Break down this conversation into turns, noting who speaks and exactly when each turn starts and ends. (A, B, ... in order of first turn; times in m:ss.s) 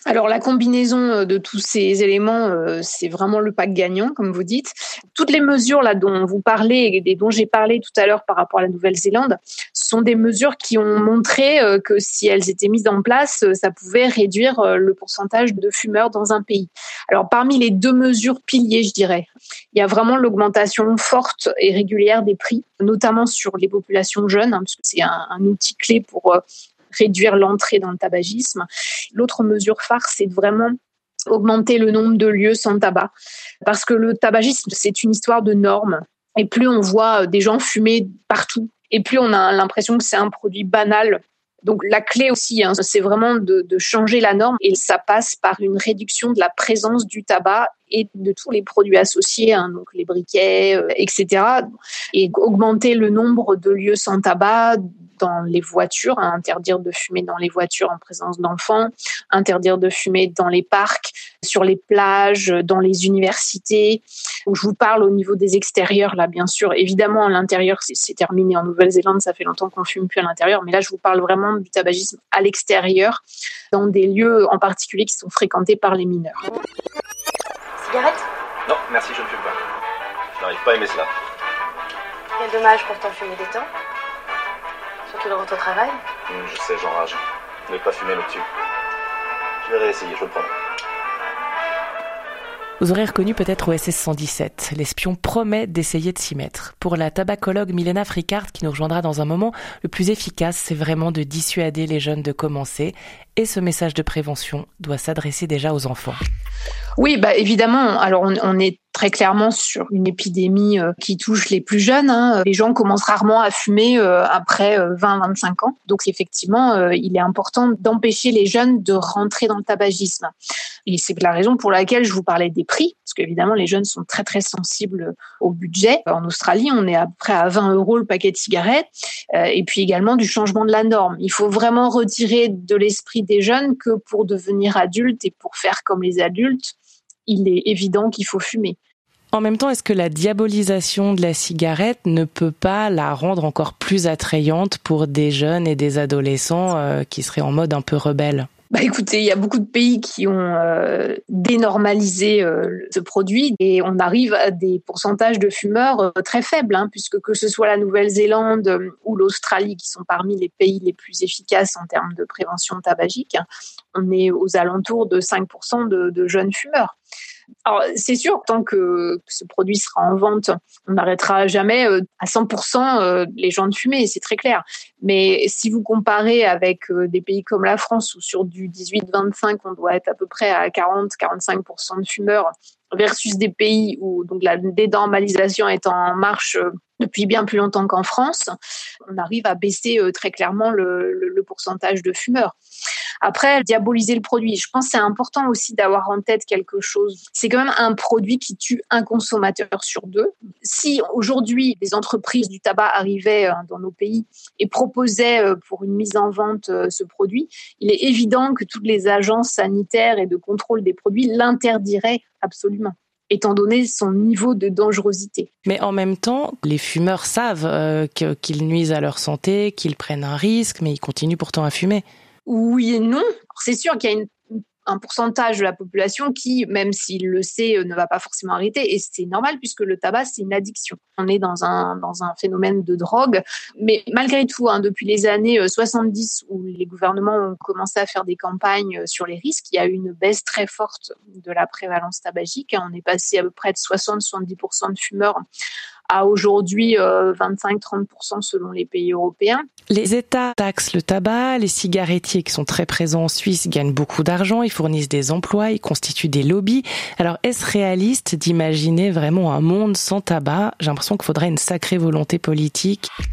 0:00.1-0:26.4 A
0:26.9-0:30.8 A
0:31.3-0:33.1 A
0:33.6-1:13.2 A
1:13.7-1:16.4 A
1:17.8-1:18.2 B
1:18.7-1:19.6 C
1:20.4-1:21.1 C
1:22.4-1:23.7 B
1:25.1-1:26.0 B
1:26.3-1:28.4 C
1:29.6-1:30.5 C
1:32.8-1:46.2 D
1:47.0-2:00.3 A
2:00.9-2:16.8 A
2:17.3-2:18.8 A
2:19.3-2:28.5 D
2:28.7-2:47.0 A
2:47.7-3:08.6 A
3:09.1-3:12.6 A
3:13.2-3:35.5 A
3:35.7-3:42.0 D
3:42.5-4:05.4 A
4:06.1-4:09.6 A
4:09.9-4:23.1 D